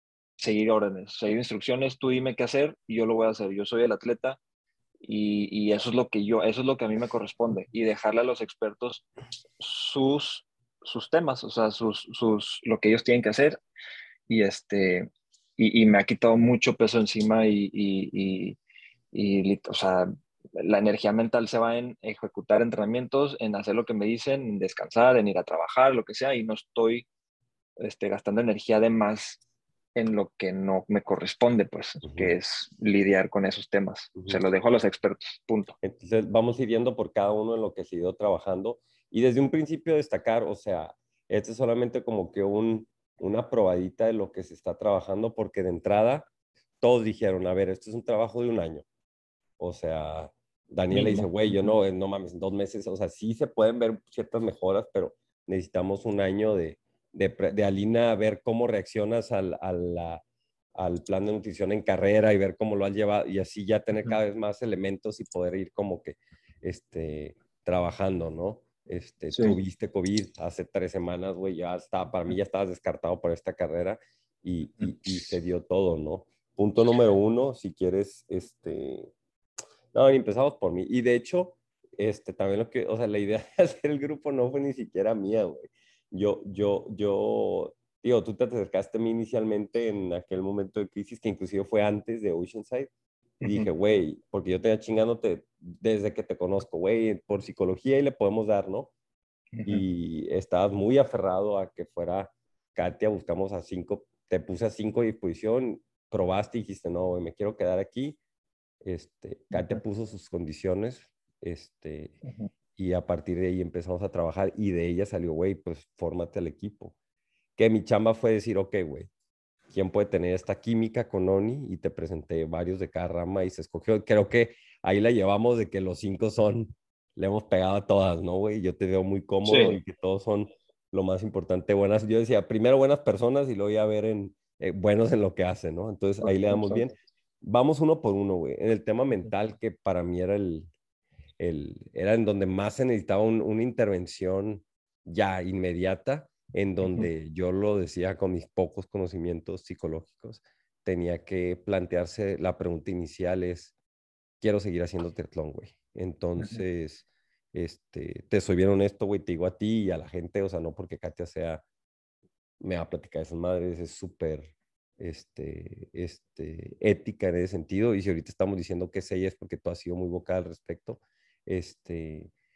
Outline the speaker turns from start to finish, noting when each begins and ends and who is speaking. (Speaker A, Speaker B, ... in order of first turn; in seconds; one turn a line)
Speaker A: 0.4-4.4
Speaker A: 5.0-9.1
Speaker A: 9.6-13.6
Speaker A: 14.3-18.6
Speaker A: 19.1-27.1
Speaker A: 27.8-29.4
Speaker A: 29.9-35.7
Speaker B: 32.0-32.3
Speaker B: 35.8-46.3
Speaker B: 46.8-48.8
Speaker B: 49.6-60.2
Speaker A: 50.9-51.7
Speaker B: 60.8-79.1
Speaker A: 69.3-69.6
Speaker B: 79.9-92.9
Speaker A: 93.4-93.7
Speaker B: 93.4-98.9
Speaker A: 99.5-99.8
Speaker B: 99.6-108.2
Speaker B: 108.8-112.1
Speaker A: 109.5-109.8
Speaker B: 112.8-116.9
Speaker B: 117.6-119.1
Speaker B: 119.7-140.7
Speaker A: 129.4-129.8
Speaker A: 136.2-136.9
Speaker B: 141.4-153.7
Speaker B: 154.4-161.6
Speaker B: 162.6-172.3